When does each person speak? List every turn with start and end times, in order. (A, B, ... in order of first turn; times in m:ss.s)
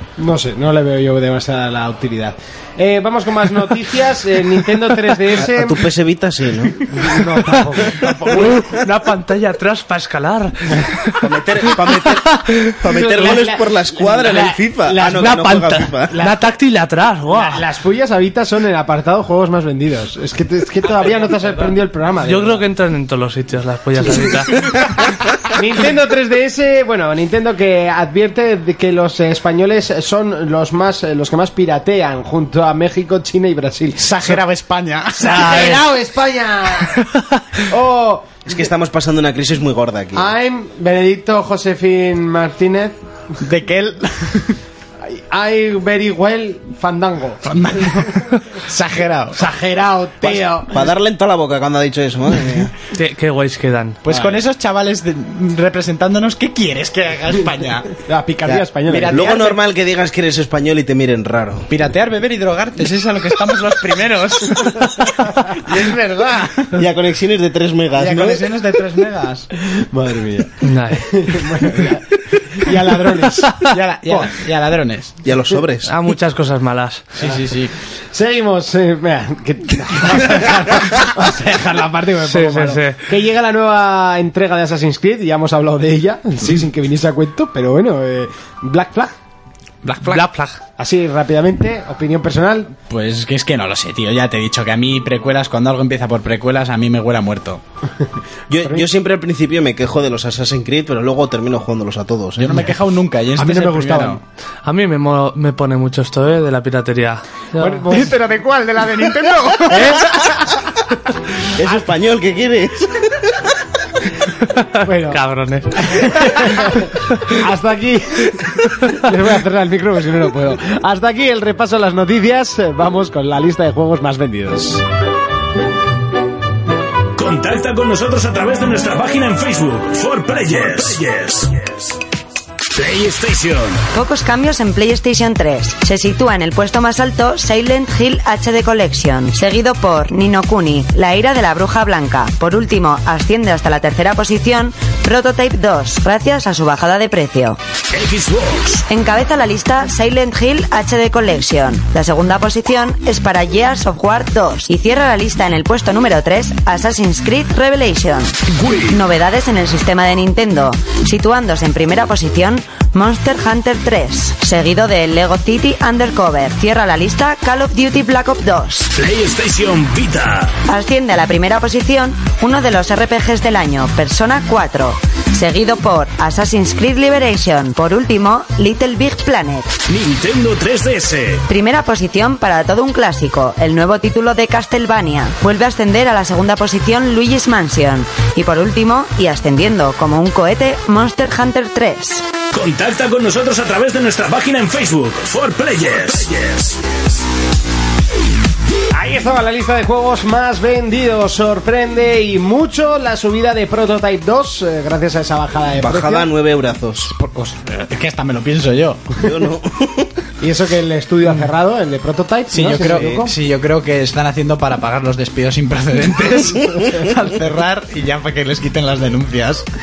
0:00.2-0:05.8 A
0:05.4-0:06.9 B
0:06.9-0:08.7 A
0:08.0-0:08.6 B
0:08.3-0:12.8 C
0:11.2-0:16.2 B
0:12.9-0:15.3 A
0:15.0-0:17.6 C
0:16.1-0:16.4 A
0:17.3-0:22.6 A
0:22.2-0:24.6 C
0:25.5-0:34.4 A
0:34.0-0:35.8 D
0:35.2-0:37.1 A
0:35.3-0:35.8 C
0:37.1-0:37.4 C
0:37.6-0:38.6 A
0:38.4-0:40.3 B
0:40.1-0:42.9 A
0:43.4-0:44.6 D
0:45.0-0:47.4 A
0:47.4-0:49.5 D
0:49.4-0:50.9 A
0:50.2-0:52.7 B
0:52.9-0:54.0 C
0:54.0-0:57.9 D
0:54.1-0:54.4 A
0:58.0-0:59.3 A
0:58.8-0:59.6 D
0:59.1-1:01.7 B
1:01.7-1:06.8 D
1:05.7-1:06.0 A
1:06.7-1:08.4 B
1:07.9-1:09.5 D
1:09.7-1:14.3 A
1:10.6-1:11.1 C
1:13.6-1:15.2 D
1:15.2-1:15.9 B
1:15.8-1:17.1 C
1:17.2-1:17.7 D
1:18.1-1:29.1 A
1:22.2-1:23.0 C
1:29.8-1:30.3 D
1:30.0-1:30.6 C
1:30.8-1:32.7 A
1:32.9-1:37.6 D
1:38.5-1:42.6 B
1:42.4-1:44.2 D
1:43.4-1:44.2 A
1:44.6-1:47.9 C
1:47.6-1:50.2 A
1:47.9-1:50.0 D
1:49.7-1:50.0 C
1:51.5-1:53.5 B
1:54.4-1:56.1 C
1:54.8-1:55.2 A
1:55.8-2:04.8 A
2:07.2-2:11.9 E
2:12.7-2:13.8 E
2:13.9-2:27.6 F
2:27.9-2:28.8 E
2:28.9-2:48.9 F
2:38.5-2:39.0 E
2:49.0-2:50.5 E
2:50.7-2:59.7 F
2:59.9-3:01.4 E
3:01.5-3:12.2 F
3:12.5-3:17.1 E
3:18.9-3:26.3 A
3:25.8-3:27.1 B
3:27.1-3:29.2 D
3:29.2-3:30.1 B
3:30.4-3:33.3 A
3:32.5-3:39.6 D